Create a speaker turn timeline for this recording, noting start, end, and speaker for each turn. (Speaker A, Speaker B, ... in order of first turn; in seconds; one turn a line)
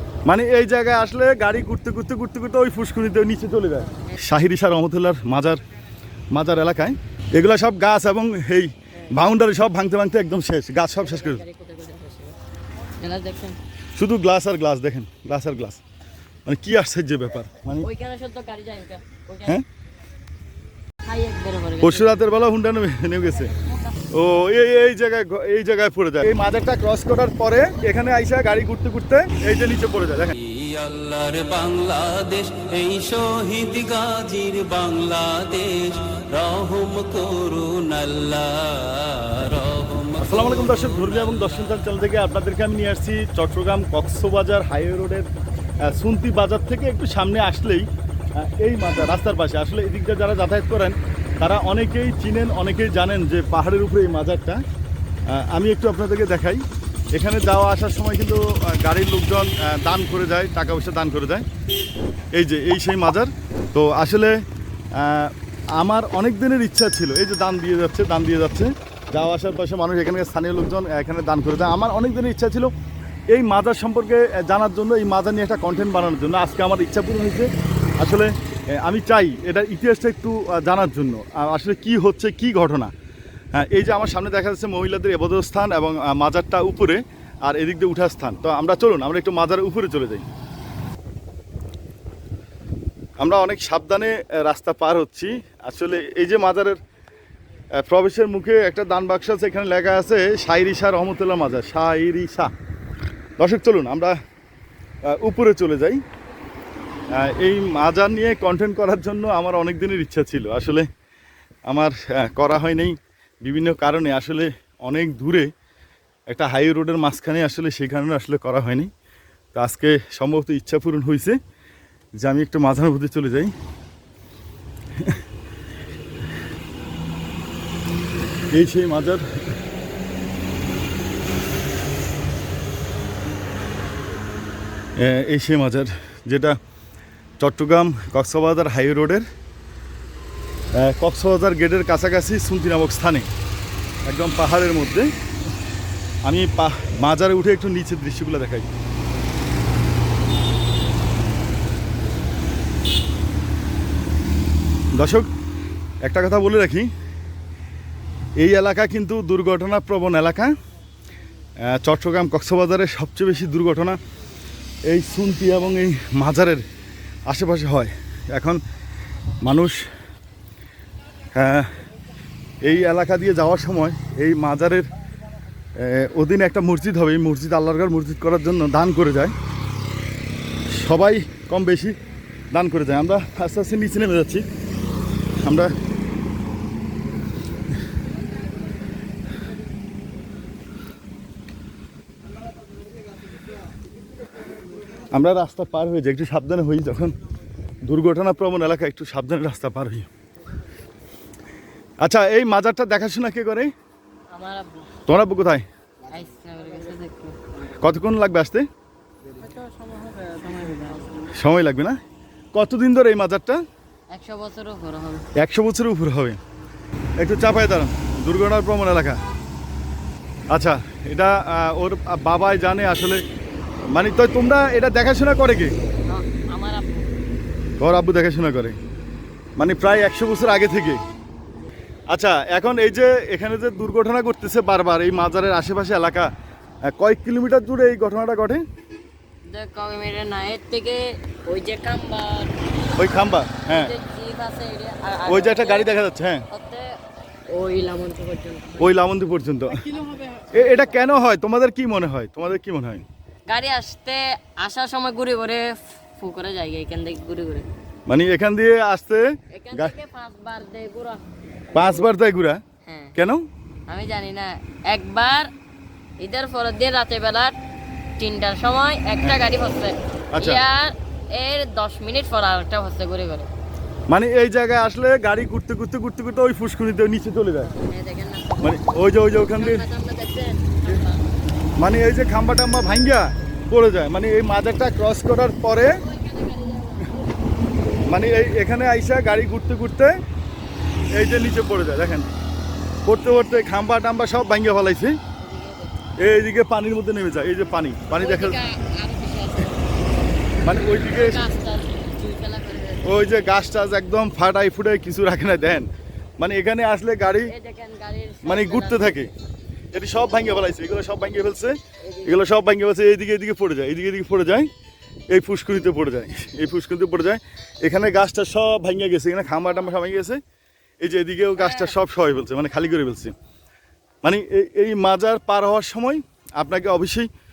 Speaker A: 0.2-5.6
Speaker A: 6.3-11.4
Speaker B: 11.0-12.3
Speaker B: 13.0-13.6
Speaker A: 13.9-15.8
Speaker A: 16.4-17.9
Speaker B: 17.8-19.6
Speaker B: 21.0-22.2
Speaker A: 21.8-23.5
Speaker B: 23.4-24.0
Speaker A: 24.1-30.4
Speaker C: 30.4-41.4
Speaker A: 40.2-45.2
Speaker A: 45.8-54.6
Speaker A: 55.3-61.4
Speaker A: 62.3-64.3
Speaker A: 64.9-72.7
Speaker A: 73.3-82.9
Speaker A: 83.5-90.2
Speaker A: 93.2-96.8
Speaker A: 97.8-102.5
Speaker A: 103.4-104.2
Speaker A: 105.0-106.0
Speaker A: 107.1-110.9
Speaker A: 111.7-115.5
Speaker A: 116.3-118.9
Speaker A: 119.5-121.4
Speaker A: 122.2-123.5
Speaker A: 128.5-129.2
Speaker A: 135.0-136.6
Speaker A: 137.4-139.2
Speaker A: 140.7-143.3
Speaker A: 144.1-145.1
Speaker A: 146.2-148.7
Speaker A: 154.9-155.3
Speaker A: 156.0-156.9
Speaker A: 158.4-160.5
Speaker A: 161.6-164.0
Speaker A: 164.9-166.6
Speaker A: 167.3-168.6
Speaker A: 169.4-169.8
Speaker A: 171.3-171.7
Speaker A: 172.6-174.9
Speaker A: 175.8-179.3
Speaker A: 180.7-181.9
Speaker A: 182.5-184.4
Speaker A: 185.4-185.7
Speaker A: 195.1-197.1
Speaker A: 197.8-200.1
Speaker A: 202.0-203.7
Speaker B: 204.3-204.9
Speaker A: 205.1-205.6
Speaker B: 206.1-207.4
Speaker A: 207.8-208.6
Speaker B: 209.3-211.3
Speaker A: 211.3-212.0
Speaker A: 212.5-213.6
Speaker B: 214.1-215.3
Speaker A: 215.4-216.4
Speaker A: 217.2-219.2
Speaker A: 220.5-223.2
Speaker A: 223.9-225.7
Speaker B: 226.1-227.2
Speaker A: 227.8-228.8
Speaker A: 229.6-231.0
Speaker A: 232.1-236.3
Speaker A: 236.8-238.6
Speaker B: 239.5-242.6
Speaker A: 242.9-243.9
Speaker B: 243.7-245.9
Speaker A: 245.3-246.4
Speaker B: 246.5-248.9
Speaker A: 248.8-249.9
Speaker B: 249.9-250.6
Speaker A: 250.5-253.0
Speaker B: 253.5-257.7
Speaker A: 258.1-259.9
Speaker B: 259.5-261.2
Speaker A: 261.7-262.6
Speaker B: 261.7-262.0
Speaker B: 262.8-263.1
Speaker A: 263.1-263.4
Speaker B: 263.9-265.5
Speaker B: 266.2-267.5
Speaker B: 268.2-273.5
Speaker A: 270.3-270.6
Speaker A: 274.1-277.7
Speaker B: 277.7-278.8
Speaker A: 278.6-279.8
Speaker B: 279.3-281.3
Speaker A: 281.8-286.0
Speaker B: 285.9-288.1
Speaker A: 288.1-290.2
Speaker A: 291.1-292.3
Speaker A: 293.0-295.1
Speaker B: 295.4-296.0
Speaker A: 296.2-298.6
Speaker B: 298.1-303.4
Speaker A: 300.6-301.4
Speaker A: 303.0-307.5
Speaker B: 307.5-309.2
Speaker A: 308.4-309.3
Speaker A: 309.9-314.7
Speaker B: 312.0-312.4
Speaker A: 315.3-320.4
Speaker A: 321.0-323.3
Speaker B: 321.6-321.9
Speaker A: 324.2-327.3